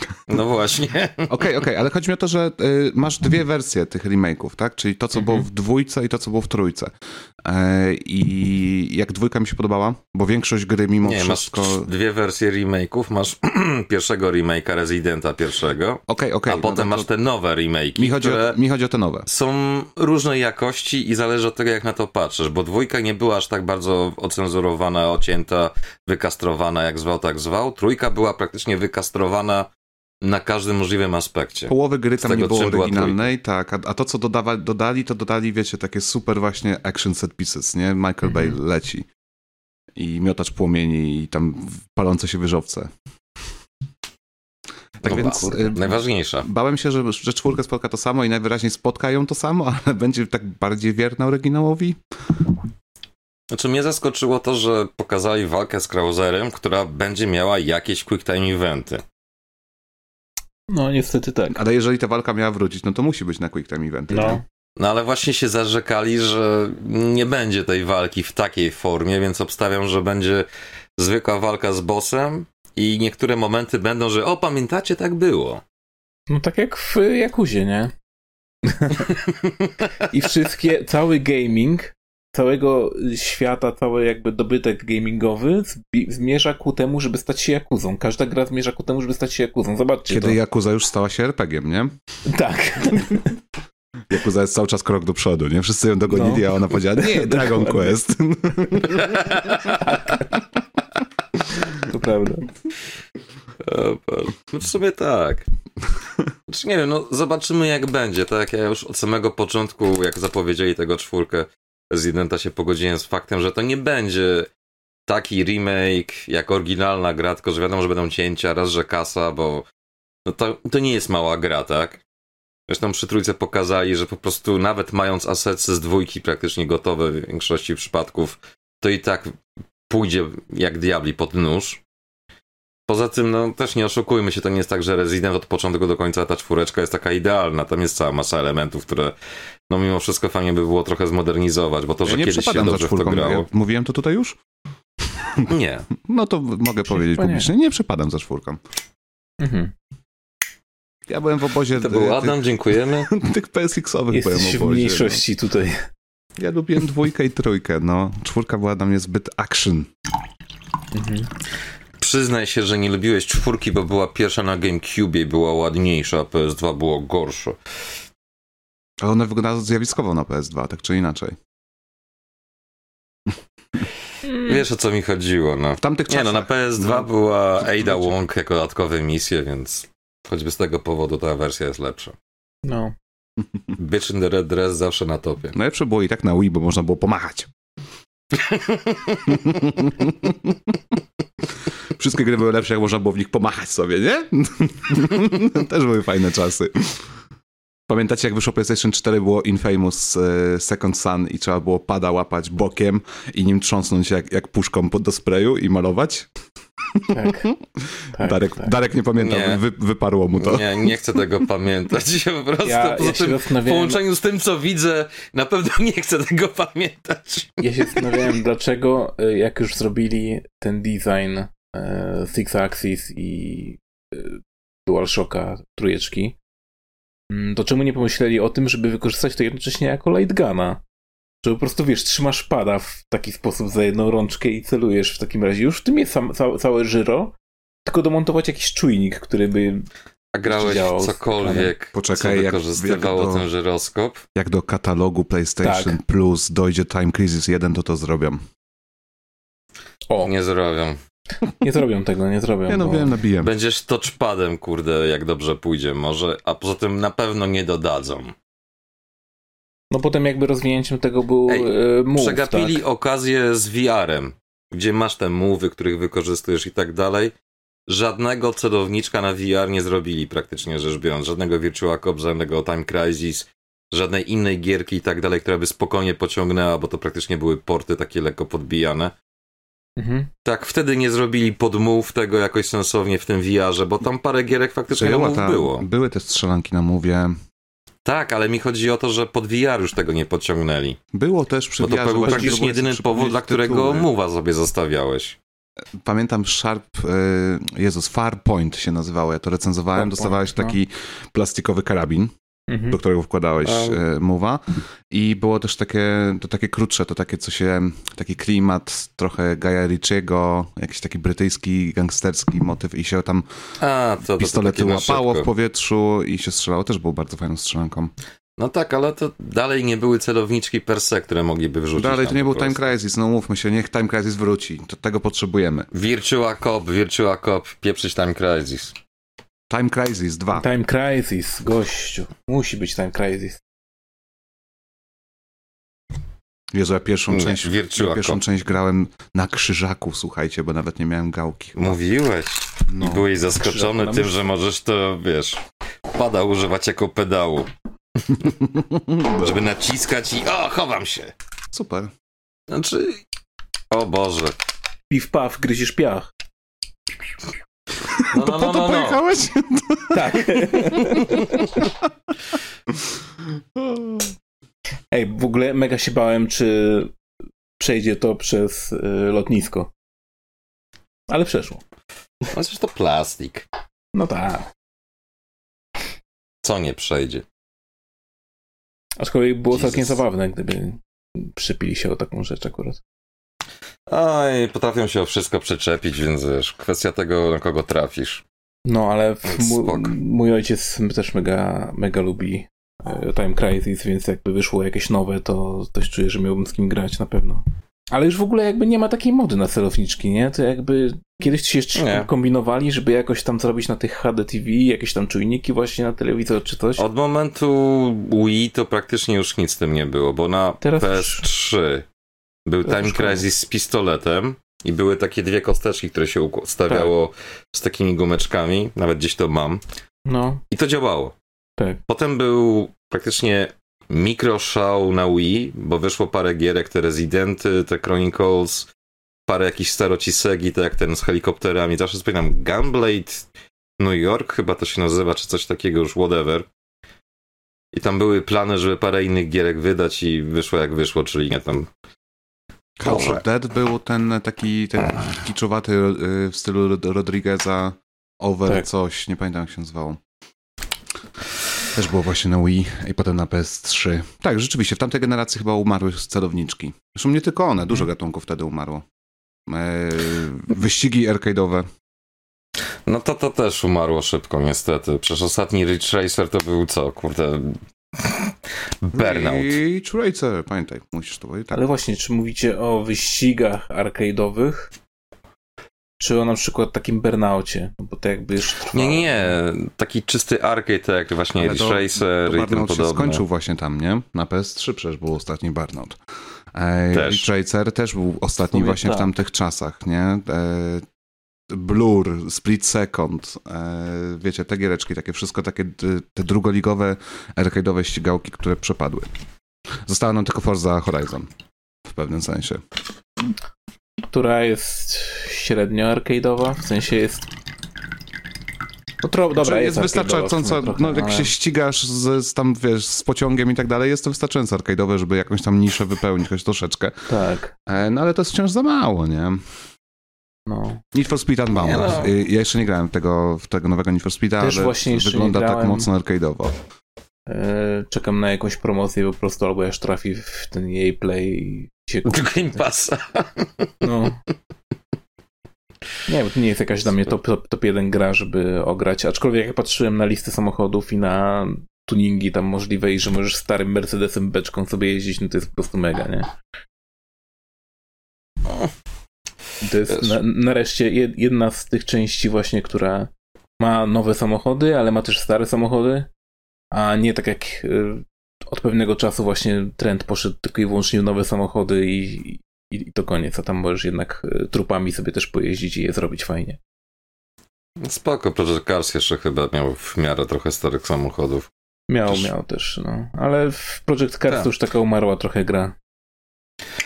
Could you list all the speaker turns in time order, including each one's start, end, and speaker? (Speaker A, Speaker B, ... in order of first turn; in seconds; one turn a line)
Speaker A: 0.3-1.5
Speaker B: 1.3-6.9
Speaker B: 7.4-11.9
Speaker A: 11.0-18.6
Speaker B: 16.1-17.1
Speaker B: 18.0-19.3
Speaker A: 19.3-29.7
Speaker A: 30.2-33.2
Speaker B: 31.7-39.1
Speaker C: 38.2-38.5
Speaker B: 40.0-42.9
Speaker B: 45.0-52.0
Speaker A: 45.0-46.5
Speaker A: 53.5-59.0
Speaker C: 60.7-61.6
Speaker B: 61.5-64.4
Speaker C: 64.1-64.4
Speaker A: 64.8-70.5
Speaker A: 71.0-75.6
Speaker C: 76.3-77.9
Speaker C: 78.7-79.1
Speaker C: 80.0-90.4
Speaker B: 90.1-91.9
Speaker C: 92.3-93.4
Speaker B: 94.1-99.3
Speaker C: 96.1-98.0
Speaker A: 98.9-99.8
Speaker C: 99.8-100.2
Speaker C: 101.7-102.5
Speaker A: 103.6-105.5
Speaker A: 106.5-114.5
Speaker A: 115.1-119.7
Speaker A: 120.3-122.0
Speaker A: 122.7-129.3
Speaker A: 129.9-131.8
Speaker A: 132.9-139.2
Speaker A: 139.7-143.5
Speaker B: 142.1-144.4
Speaker B: 145.1-148.6
Speaker A: 145.5-145.9
Speaker C: 146.9-147.5
Speaker C: 149.4-149.7
Speaker B: 151.1-155.2
Speaker A: 151.8-153.1
Speaker C: 154.1-155.9
Speaker B: 156.4-159.9
Speaker C: 160.9-161.3
Speaker A: 162.0-167.6
Speaker B: 169.0-171.4
Speaker C: 174.3-174.6
Speaker A: 174.3-182.2
Speaker B: 175.8-178.1
Speaker C: 182.7-182.9
Speaker A: 183.8-185.5
Speaker B: 185.5-187.5
Speaker A: 188.3-189.4
Speaker B: 189.3-190.6
Speaker B: 191.9-197.1
Speaker B: 197.9-206.3
Speaker B: 207.0-211.0
Speaker C: 207.1-207.5
Speaker C: 208.2-208.7
Speaker A: 209.2-209.6
Speaker A: 210.4-218.3
Speaker C: 212.6-214.0
Speaker C: 217.6-226.4
Speaker C: 227.3-230.8
Speaker C: 231.4-237.3
Speaker C: 237.8-239.9
Speaker A: 240.3-244.2
Speaker C: 240.5-241.7
Speaker B: 241.9-243.5
Speaker B: 244.3-248.4
Speaker C: 245.6-246.0
Speaker A: 250.2-251.0
Speaker C: 251.6-253.1
Speaker B: 252.7-253.5
Speaker A: 253.4-258.3
Speaker C: 259.9-262.8
Speaker A: 261.5-267.3
Speaker A: 267.9-279.1
Speaker C: 280.0-280.3
Speaker A: 280.4-285.9
Speaker B: 284.9-287.4
Speaker A: 288.1-291.0
Speaker B: 291.1-294.1
Speaker A: 291.8-295.4
Speaker C: 292.2-292.6
Speaker B: 296.0-302.3
Speaker C: 299.9-300.8
Speaker C: 302.7-303.0
Speaker B: 302.9-313.5
Speaker A: 303.6-304.0
Speaker A: 313.8-315.5
Speaker B: 314.3-318.1
Speaker A: 318.6-322.9
Speaker B: 322.0-325.9
Speaker A: 325.9-329.0
Speaker B: 329.7-330.7
Speaker C: 330.5-333.6
Speaker B: 336.7-342.0
Speaker A: 337.3-338.4
Speaker A: 341.8-347.7
Speaker B: 342.9-343.3
Speaker C: 343.6-344.4
Speaker B: 348.6-349.6
Speaker A: 349.3-351.3
Speaker B: 351.7-352.1
Speaker A: 352.7-353.2
Speaker A: 353.9-354.6
Speaker C: 355.1-356.3
Speaker B: 358.1-361.9
Speaker A: 358.2-359.2
Speaker C: 360.1-361.7
Speaker B: 362.9-363.1
Speaker B: 363.8-364.3
Speaker C: 365.1-367.1
Speaker C: 367.8-369.9
Speaker C: 371.3-371.8
Speaker A: 372.5-373.7
Speaker C: 374.1-374.7
Speaker A: 376.6-377.4
Speaker C: 379.2-383.0
Speaker A: 379.7-380.2
Speaker A: 384.1-388.4
Speaker C: 388.9-407.1
Speaker A: 389.5-390.1
Speaker A: 401.9-402.3
Speaker A: 407.0-412.1
Speaker C: 410.8-411.5
Speaker A: 412.7-419.8
Speaker C: 412.9-413.4
Speaker C: 416.9-417.1
Speaker C: 420.3-420.6
Speaker A: 420.7-421.3
Speaker A: 422.1-428.9
Speaker A: 429.5-433.5
Speaker A: 434.0-436.7
Speaker A: 437.9-441.9
Speaker B: 443.0-450.2
Speaker A: 443.0-443.4
Speaker B: 451.9-459.1
Speaker B: 459.7-461.9
Speaker A: 463.1-469.8
Speaker B: 469.1-471.8
Speaker C: 471.7-474.9
Speaker C: 476.2-479.6
Speaker A: 478.9-483.4
Speaker B: 481.6-486.2
Speaker B: 486.7-491.1
Speaker A: 487.1-487.5
Speaker C: 488.7-489.3
Speaker B: 491.7-499.3
Speaker B: 500.1-501.5
Speaker B: 502.1-502.8
Speaker C: 504.3-507.5
Speaker B: 509.2-517.3
Speaker C: 509.2-511.5
Speaker C: 517.3-517.7
Speaker B: 517.9-519.6
Speaker C: 520.7-521.0
Speaker B: 521.1-526.8
Speaker A: 521.8-522.3
Speaker C: 524.6-526.1
Speaker C: 527.5-532.8
Speaker A: 532.2-533.9
Speaker C: 534.0-534.4
Speaker C: 536.3-546.5
Speaker A: 548.7-548.9
Speaker C: 549.8-556.3
Speaker A: 550.1-550.4
Speaker C: 556.9-566.8
Speaker A: 568.0-571.7
Speaker C: 572.1-576.0